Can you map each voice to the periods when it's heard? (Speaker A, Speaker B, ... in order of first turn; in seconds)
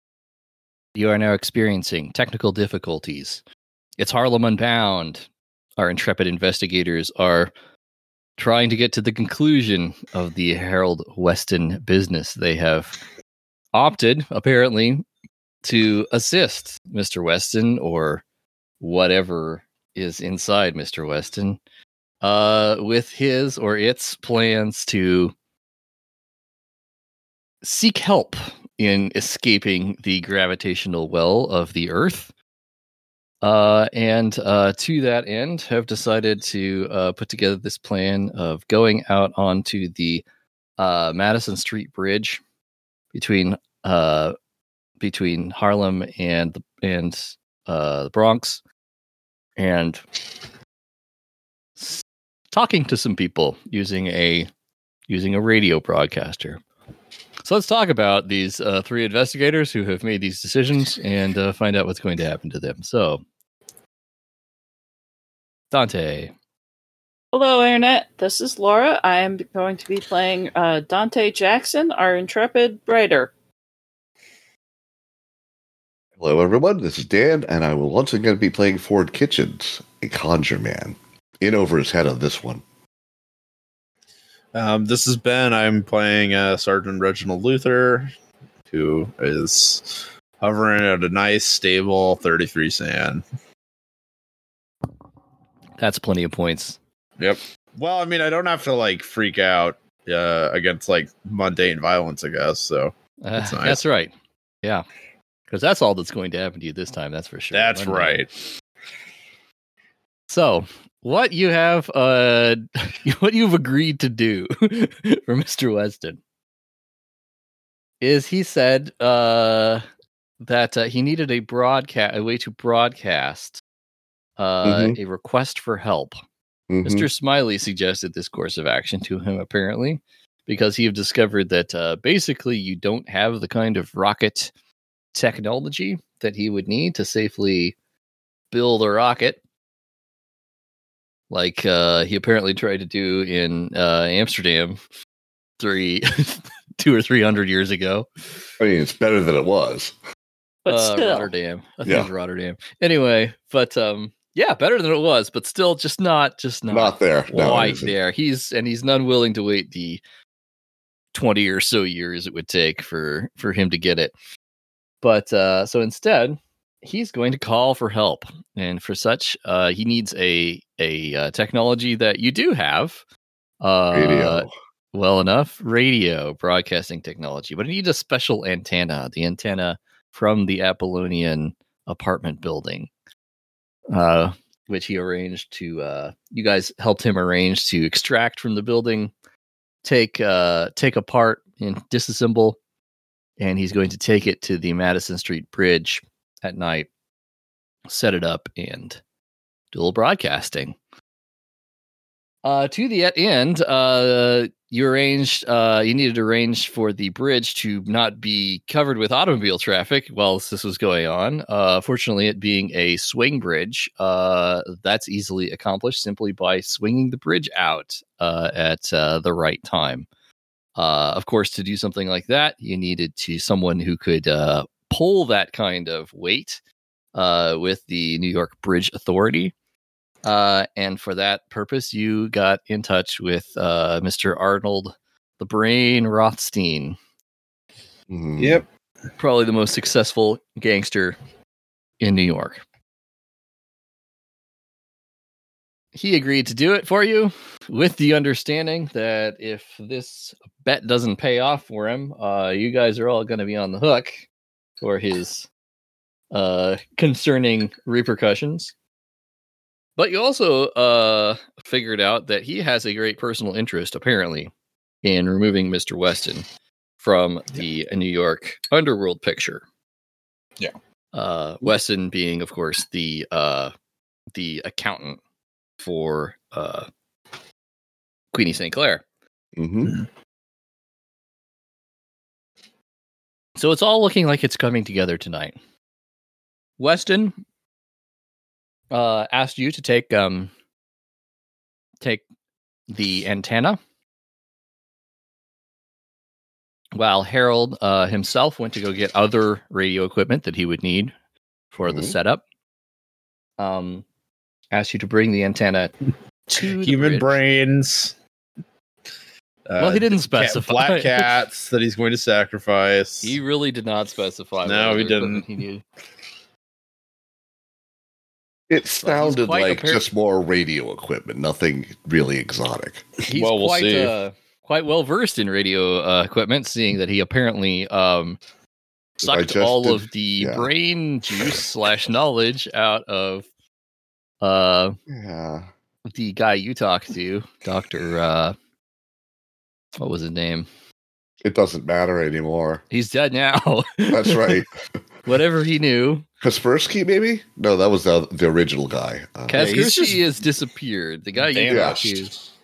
Speaker A: 0.9-3.4, 4.0-5.2, 5.8-7.5, 8.4-13.0, 13.7-15.0, 15.6-18.2, 18.8-21.6, 22.2-25.3, 27.6-32.3, 33.4-40.2, 40.8-42.4, 43.1-44.3, 45.0-48.6, 49.6-50.0, 51.8-54.5, 55.1-56.6, 57.4-63.2, 65.7-66.3, 95.8-96.8, 103.2-104.1, 105.5-108.2, 110.3-116.2, 118.0-119.8, 120.4-123.6, 124.4-126.2, 126.8-134.5, 135.1-137.7, 138.5-139.4, 141.3-144.8, 145.6-148.1, 150.7-160.0, 161.1-164.1, 165.0-173.0, 173.6-182.9, 183.9-189.1, 189.8-192.6, 193.4-196.9, 197.9-199.0, 199.7-200.8, 202.4-220.1, 220.8-226.6, 227.1-229.5, 230.2-237.0, 239.2-241.2, 242.0-242.6, 245.9-254.2, 254.8-255.5, 256.3-258.7, 260.0-264.5, 265.0-266.4, 267.0-269.6, 271.1-273.7, 274.3-275.2, 275.8-276.9, 278.3-279.0, 283.6-285.6, 286.8-287.4, 288.9-290.5, 292.9-293.8, 296.9-301.1, 301.7-302.4, 303.6-304.0, 304.7-305.9, 306.5-307.3, 309.8-311.4, 313.2-315.8, 319.0-320.0, 323.3-328.4, 329.2-333.4, 334.4-335.0, 336.1-338.6, 340.0-340.7, 342.9-344.6, 345.2-346.2, 349.5-352.3
Speaker B: 67.3-73.3, 150.6-151.3
Speaker C: 76.2-82.6, 124.6-125.0, 126.7-127.1, 148.6-149.9, 156.7-157.9, 173.9-174.5, 238.1-238.6, 279.6-279.9, 301.9-302.1, 318.7-323.0, 329.2-330.7, 335.1-335.7, 341.4-342.8, 344.1-344.7, 346.4-349.7, 351.7-352.1
Speaker D: 84.5-88.1, 88.7-93.2, 97.2-103.8, 107.5-108.3, 238.4-238.7, 306.5-308.1, 309.7-313.3, 314.6-315.4, 323.2-324.1, 349.5-350.2, 351.4-352.3